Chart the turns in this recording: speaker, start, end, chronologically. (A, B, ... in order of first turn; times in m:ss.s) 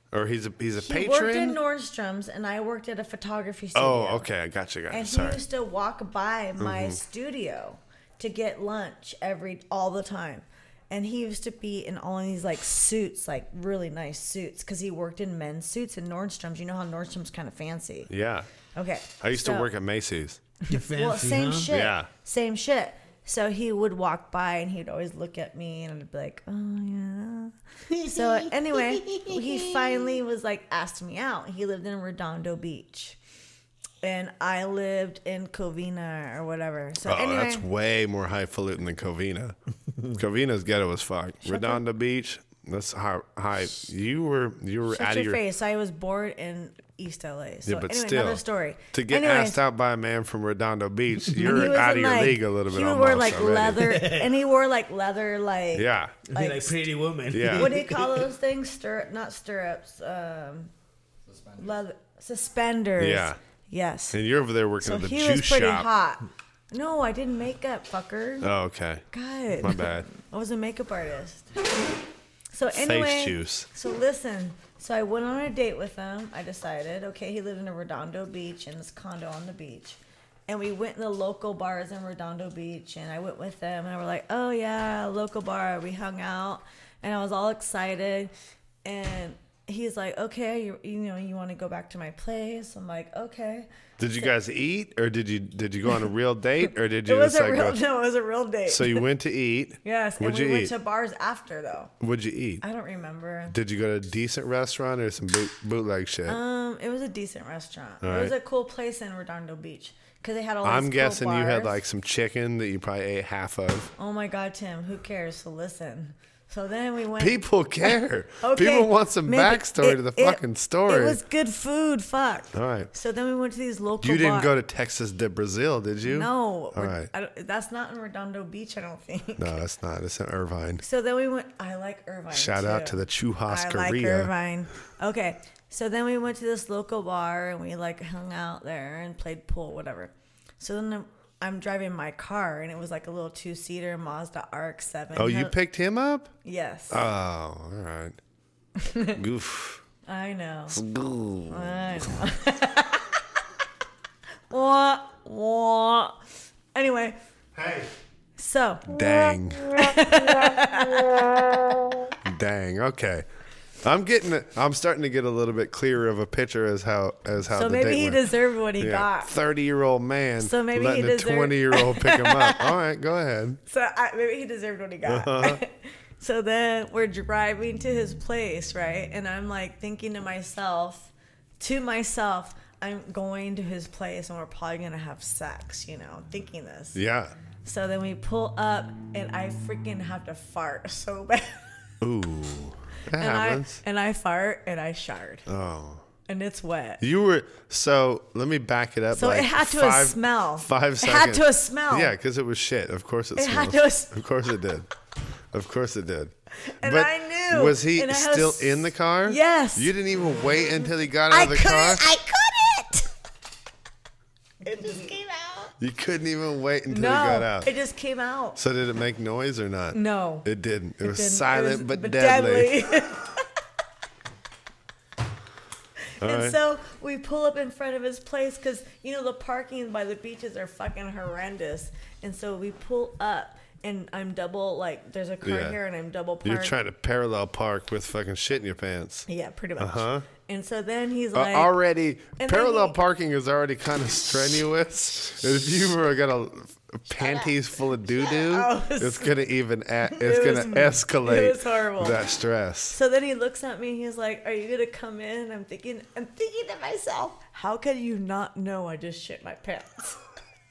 0:00.1-0:01.6 A
0:00.8-0:04.3 B
0:03.7-0:05.4 A
0:04.9-0:18.1 B
0:06.6-0:07.0 A
0:18.1-0:18.5 A
0:18.7-0:19.7 B
0:19.2-0:20.4 A
0:20.7-0:21.7 C
0:20.7-0:33.2 B
0:21.7-0:22.1 A
0:27.9-0:30.1 C
0:34.0-0:37.6 B
0:37.0-0:39.5 A
0:40.1-0:45.4 A
0:41.4-0:41.8 B
0:44.9-0:49.6 B
0:47.6-0:48.4 A
0:48.9-0:53.9 A
0:51.3-0:51.7 C
0:51.4-0:56.8 B
0:53.8-0:54.3 C
0:55.7-0:56.2 A
0:56.3-0:58.3 C
0:57.3-0:57.7 A
0:57.5-1:00.7 B
1:01.5-1:04.2 B
1:03.0-1:03.4 A
1:04.1-1:05.9 A
1:04.8-1:08.5 B
1:08.4-1:09.0 A
1:09.1-1:11.6 B
1:09.6-1:10.1 A
1:12.5-1:28.3 B
1:12.7-1:13.7 A
1:28.8-1:33.7 B
1:34.0-1:37.8 A
1:37.0-1:39.0 B
1:38.7-1:40.7 A
1:39.8-1:41.9 B
1:42.0-1:42.6 A
1:42.6-1:43.5 B
1:43.5-1:46.4 A
1:46.2-1:51.8 B
1:48.0-1:48.3 A
1:50.6-1:53.9 A
1:54.0-2:04.5 B
1:57.2-2:01.2 A
2:02.5-2:02.9 A
2:04.0-2:07.1 A
2:06.0-2:09.6 B
2:09.4-2:10.8 A
2:10.8-2:25.5 B
2:12.3-2:14.3 A
2:25.1-2:26.3 A
2:26.4-2:27.0 B
2:26.9-2:28.2 A
2:28.8-2:29.2 B
2:29.2-2:29.8 A
2:30.1-2:30.8 B
2:30.7-2:31.8 A
2:31.5-2:33.2 B
2:34.5-2:36.2 B
2:36.7-2:37.2 B
2:37.5-2:37.9 A
2:38.4-2:41.5 B
2:38.9-2:40.2 A
2:42.2-2:43.2 A
2:43.8-2:53.6 A
2:47.5-2:49.3 B
2:50.4-2:52.8 B
2:53.7-3:07.0 B
2:55.0-2:55.6 A
3:06.9-3:07.3 A
3:07.6-3:11.6 B
3:12.0-3:13.8 A
3:13.2-3:15.4 B
3:15.5-3:16.0 A
3:16.3-3:17.0 B
3:17.0-3:24.9 A
3:19.1-3:22.1 B
3:23.4-3:24.2 B
3:25.5-3:32.0 A
3:26.6-3:29.9 B
3:31.3-3:33.1 B
3:34.6-3:35.7 B
3:35.8-3:37.7 A
3:36.9-3:38.6 B
3:38.6-3:42.8 A
3:39.9-3:40.4 B
3:41.0-3:43.5 B
3:46.2-3:46.6 A
3:46.2-3:56.7 B
3:55.4-3:55.8 A
3:56.4-3:59.3 A
3:59.3-4:01.7 B
3:59.8-4:00.2 A
4:01.3-4:13.0 A
4:02.4-4:03.0 B
4:07.1-4:07.5 B
4:08.1-4:09.4 B
4:10.1-4:12.2 B
4:12.9-4:20.2 B